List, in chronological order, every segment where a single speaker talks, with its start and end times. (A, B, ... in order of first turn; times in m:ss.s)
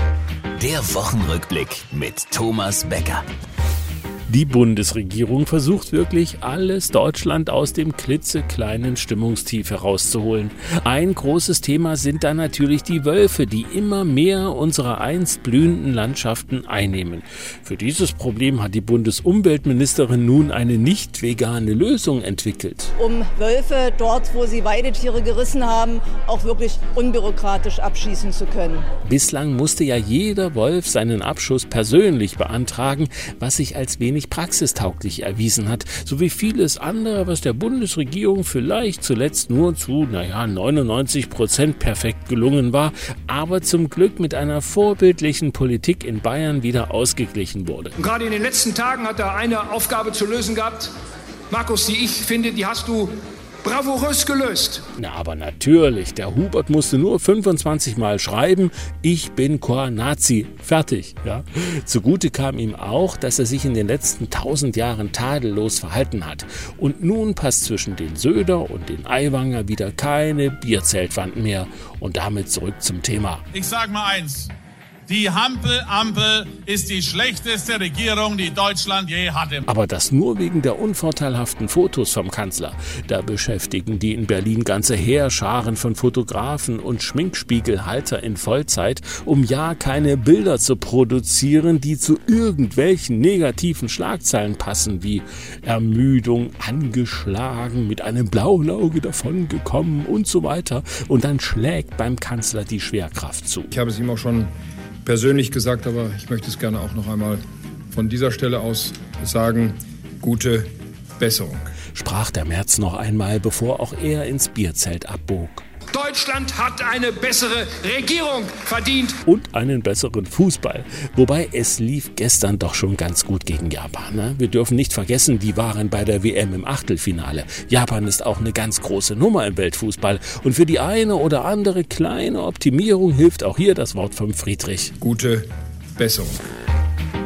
0:00.6-0:03.2 A
0:04.3-0:22.9 B
0:23.0-0:28.8 C
0:29.0-0:47.9 B
0:48.0-0:50.9 D
0:51.5-0:53.1 D
0:53.6-0:54.8 D
0:55.0-1:13.4 B
1:13.5-1:14.5 E
1:15.1-1:19.6 E
1:19.7-1:43.7 B
1:43.7-1:44.5 F
1:45.0-1:47.4 F
1:47.9-1:51.6 F
1:51.9-1:55.6 B
1:55.9-1:59.2 D
1:59.2-2:14.9 B
2:15.0-2:15.4 F
2:16.0-2:16.4 F